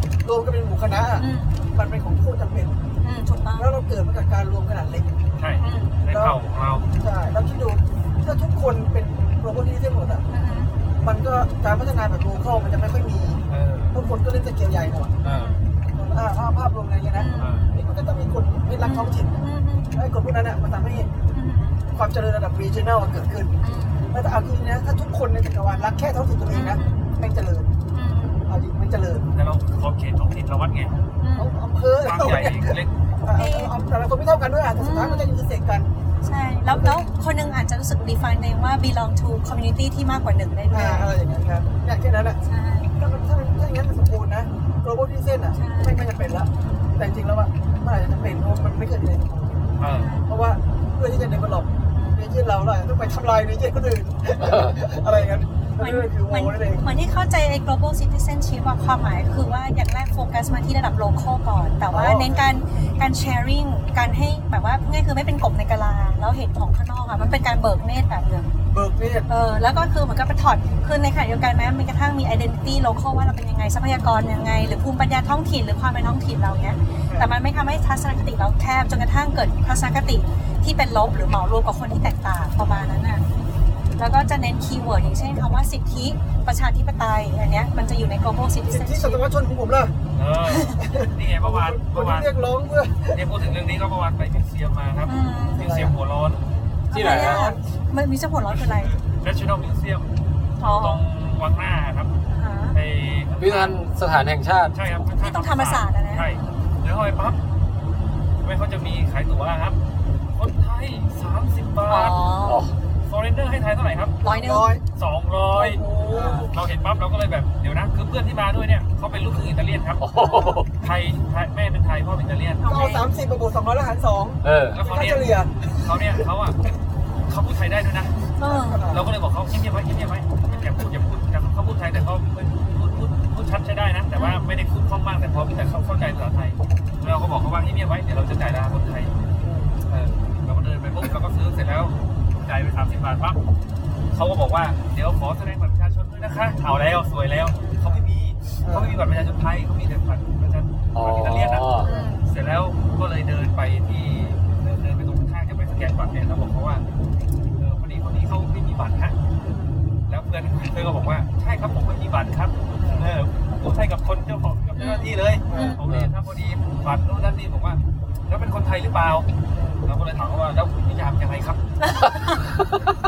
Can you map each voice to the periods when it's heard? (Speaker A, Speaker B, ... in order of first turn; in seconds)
Speaker A: 0.2-2.8, 3.6-5.2, 6.1-6.4, 7.0-10.2, 11.0-15.1, 15.9-19.4, 19.9-21.1, 21.9-23.5, 24.1-27.7, 28.5-29.3, 31.4-35.9, 36.7-37.1, 40.7-42.4, 43.0-49.7, 50.2-56.9, 61.9-62.5, 68.7-69.3, 88.7-90.0, 90.8-93.2, 95.5-95.9, 97.0-97.6, 114.2-114.8, 115.5-116.5, 122.7-126.2, 128.4-129.1, 139.4-139.8, 147.7-148.0, 148.6-149.0, 162.8-163.1, 165.5-165.8, 169.5-169.9
Speaker B: 1.2-1.6, 3.0-3.7, 5.6-6.0, 10.3-10.7, 15.2-15.8, 17.1-17.8, 18.8-20.1, 21.3-22.0, 23.6-24.2, 25.7-27.1, 27.9-28.6, 31.2-31.6, 33.3-33.9, 34.8-35.4, 36.2-41.1, 42.4-43.0, 45.5-46.0, 49.9-50.3, 51.9-52.4, 55.8-68.5, 69.3-83.2, 84.0-89.2, 90.5-90.8, 95.0-95.7, 96.8-99.0, 100.6-101.1, 102.3-102.8, 105.1-106.2, 111.9-112.6, 114.2-114.8, 120.2-120.6, 122.6-123.0, 128.4-128.9, 130.4-130.7, 134.1-134.4, 151.8-152.2, 164.8-165.8, 171.8-172.4
Speaker C: 5.3-6.8, 13.5-14.0, 15.2-15.5, 17.4-17.7, 29.3-31.0, 32.0-32.9, 49.8-50.1, 90.1-92.3, 93.1-96.5, 98.5-102.1, 102.7-103.8, 104.7-107.4, 108.4-109.8, 110.3-112.2, 113.0-114.2, 115.0-120.0, 120.8-122.7, 124.7-126.6, 127.3-128.2, 128.9-139.1, 139.9-143.4, 144.1-156.8, 157.6-159.2, 160.1-169.3, 169.8-171.6
Speaker D: 54.4-54.8, 96.9-97.4, 103.4-104.8, 112.5-112.8, 120.0-120.7, 124.4-124.8, 150.9-151.9